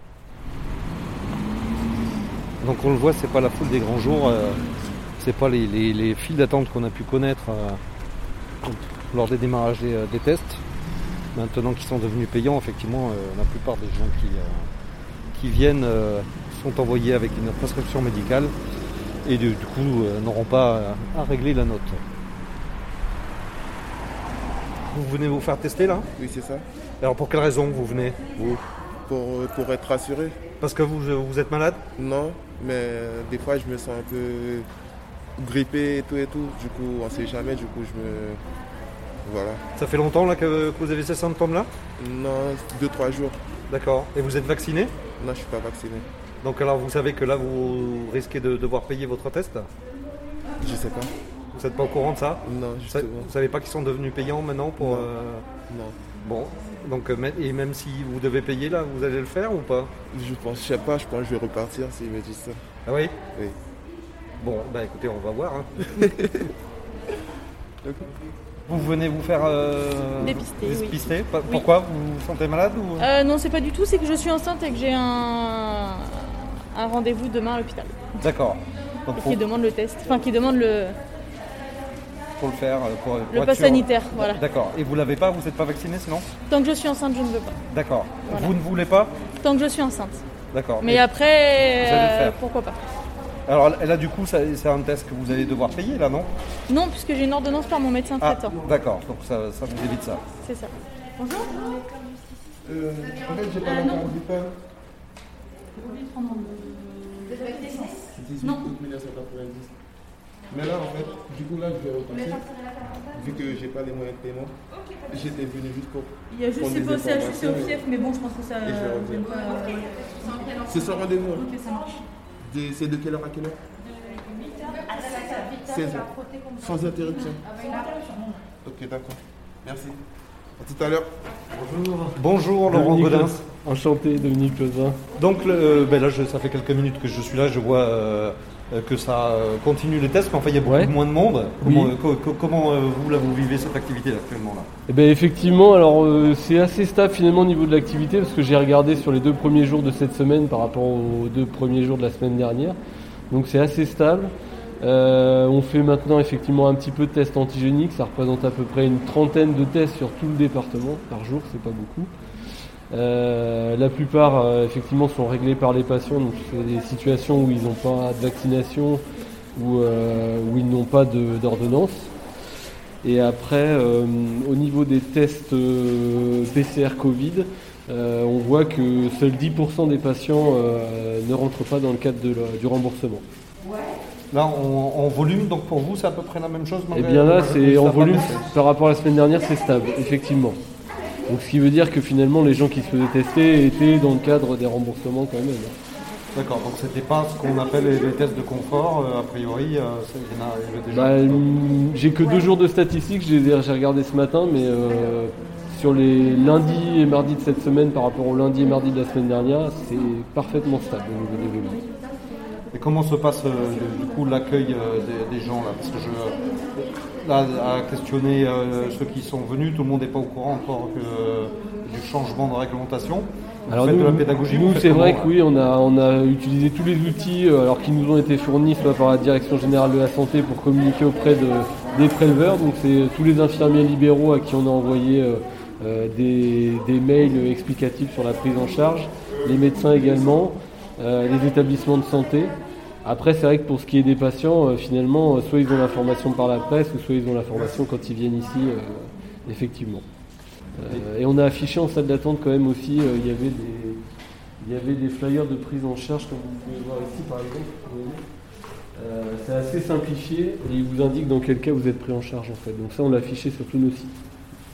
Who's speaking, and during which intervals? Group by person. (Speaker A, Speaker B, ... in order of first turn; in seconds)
Speaker A: 2.6-4.6, 5.2-7.8, 8.7-10.6, 11.3-14.7, 15.3-18.5, 19.2-22.0, 24.9-26.1, 27.0-28.4, 30.6-31.8, 39.8-41.7, 43.7-44.9, 46.4-49.7, 51.5-55.5, 56.2-59.9, 62.9-63.1, 64.4-66.3, 68.7-73.1, 78.2-79.4, 82.4-86.3, 87.7-89.1, 90.5-91.1, 91.8-92.4, 93.5-96.3, 98.2-100.2, 132.1-133.4, 135.2-144.7, 184.3-188.6, 196.3-201.4, 212.7-225.3
Speaker B: 26.2-26.6, 28.4-30.4, 32.0-34.7, 35.4-38.4, 39.2-39.6, 42.0-43.4, 45.2-46.1, 50.6-51.1, 52.4-53.3, 54.8-55.1, 55.7-56.0, 60.1-62.6, 66.1-66.4, 102.7-104.5, 108.1-109.7, 110.5-112.5, 113.1-114.5, 115.1-117.8, 118.6-119.3, 120.6-121.5, 122.4-123.6, 125.5-127.5, 128.7-130.0, 130.6-131.1
Speaker C: 70.2-71.7, 73.0-78.1, 79.1-81.0, 83.3-84.4, 86.5-87.6, 88.3-88.5, 89.4-90.2, 90.8-92.8, 96.7-98.6, 100.4-101.7, 105.8-108.7, 116.3-119.9, 121.4-122.0
Speaker D: 131.6-132.1, 132.7-135.0, 140.7-140.9, 141.6-141.9, 144.9-152.8, 153.3-162.1, 162.9-169.0, 169.6-172.1, 173.0-183.2, 186.9-190.6, 191.3-195.8, 200.9-211.9, 223.7-250.1, 250.8-254.0, 254.6-258.2, 259.0-264.1